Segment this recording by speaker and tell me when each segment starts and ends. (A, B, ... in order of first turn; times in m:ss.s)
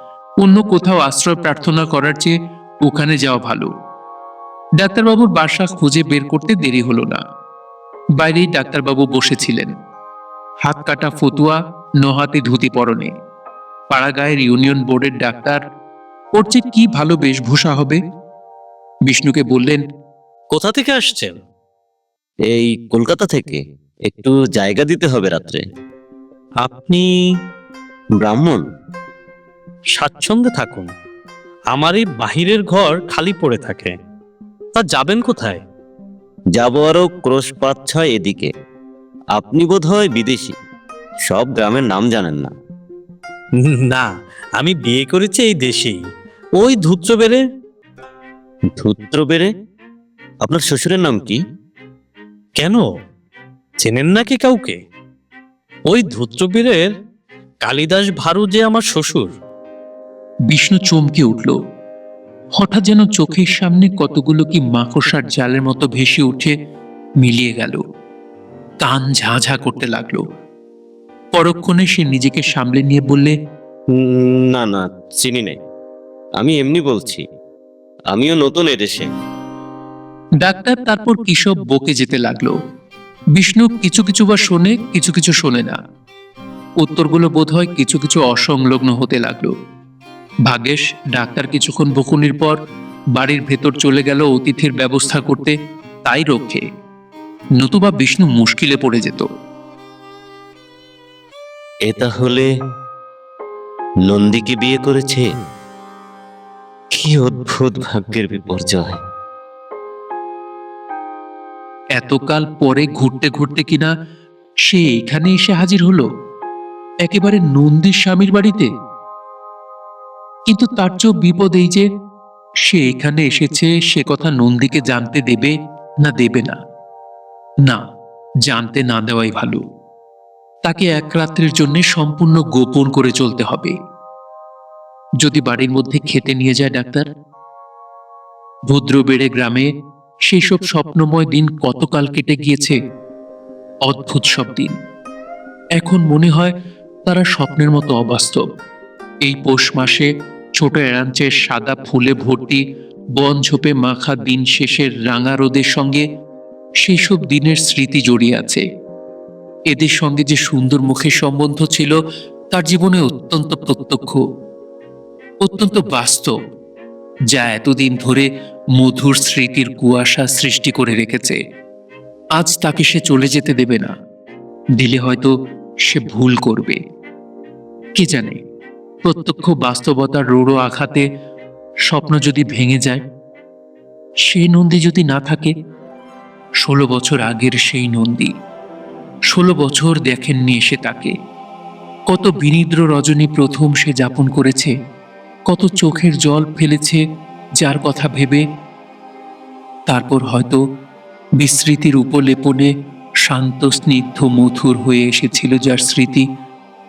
0:00.4-0:03.7 A
0:04.8-0:07.2 A
0:08.2-0:09.7 A
0:10.6-0:13.1 A
0:13.9-0:15.6 A
0:16.4-0:18.0 A
0:19.1-0:19.8 A
0:20.5-0:21.4 B
0:22.5-0:25.6 C
0:26.6-0:27.1 B
0:28.2-0:28.6 C
0:30.0-0:30.9 B
0:31.7-0:34.0 B
0:34.8-0:35.6 B
0:36.6-0:38.5 C
0:39.4-0:40.6 C
0:41.3-0:42.5 C
0:43.6-0:46.0 B
0:46.6-0:47.4 B
0:48.8-0:49.5 C
0:50.4-0:51.4 C
0:52.6-0:52.9 B
0:53.8-0:54.8 B
0:55.9-0:56.9 B
0:57.6-0:59.3 B
1:00.5-1:01.6 A
1:02.6-1:06.5 A
1:07.2-1:07.8 A
1:08.8-1:10.2 A
1:11.4-1:13.4 A
1:14.0-1:15.6 C
1:16.4-1:17.2 C
1:18.1-1:19.1 C
1:20.4-1:22.6 A
1:23.4-1:25.8 A
1:26.8-1:29.5 A
1:30.5-1:32.6 A
1:33.2-1:36.6 A
1:37.6-1:39.3 A
1:41.9-1:42.5 C
1:44.1-1:45.3 C
1:46.9-1:49.0 C
1:52.0-1:53.9 A
1:54.7-1:56.1 A
1:57.0-1:58.7 A
2:00.5-2:01.9 A
2:02.7-2:06.6 A
2:08.5-2:09.6 A
2:10.6-2:13.8 A
2:15.2-2:17.1 A
2:18.7-2:19.7 A
2:20.3-2:22.8 A
2:23.9-2:24.8 A
2:25.8-2:26.5 A
2:27.1-2:28.5 A
2:29.2-2:32.6 A
2:33.2-2:36.0 A
2:36.8-2:38.6 A
2:39.7-2:42.0 A
2:42.5-2:44.2 A
2:45.4-2:46.3 A
2:47.3-2:51.4 A
2:52.4-2:53.9 A
2:54.8-2:55.4 A
2:55.9-2:56.8 A
2:58.0-2:58.4 A
2:59.0-3:01.1 A
3:01.9-3:03.0 A
3:04.3-3:05.5 A
3:06.6-3:08.3 A
3:09.3-3:11.1 A
3:12.1-3:14.7 A
3:15.5-3:17.0 A
3:17.6-3:18.4 A
3:19.9-3:20.6 A
3:21.4-3:22.7 A
3:23.2-3:26.3 A